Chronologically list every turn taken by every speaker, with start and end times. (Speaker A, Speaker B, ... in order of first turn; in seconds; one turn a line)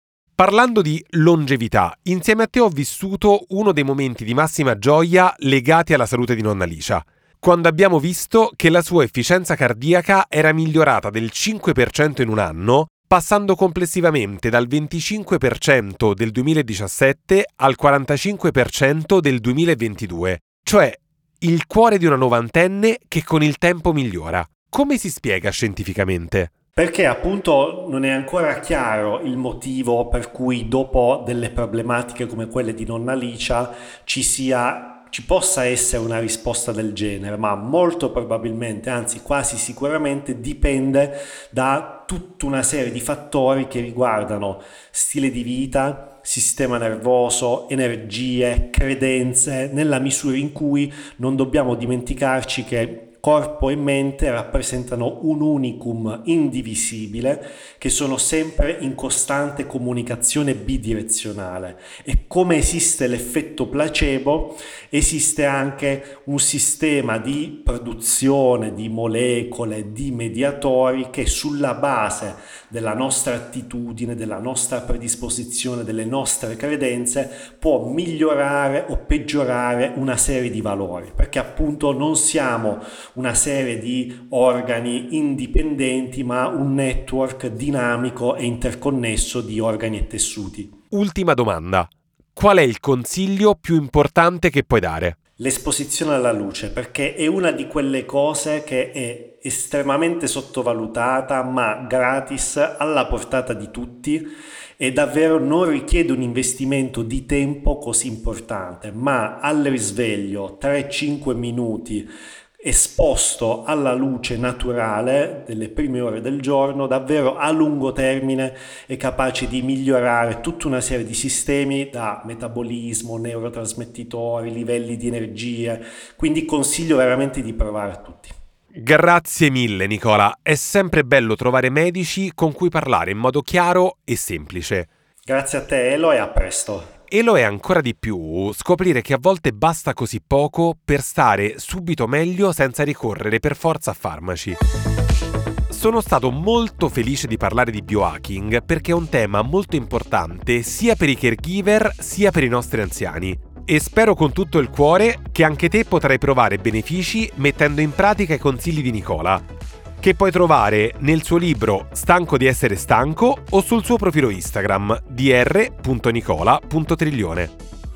Speaker A: 0.4-26.5
Speaker B: 26.8-90.8
Speaker A: 90.9-95.2
Speaker B: 95.4-112.1
Speaker B: 112.6-128.3
Speaker A: 128.8-134.9
Speaker B: 135.3-136.9
Speaker A: 137.1-144.6
Speaker A: 145.7-159.4
Speaker A: 160.0-167.5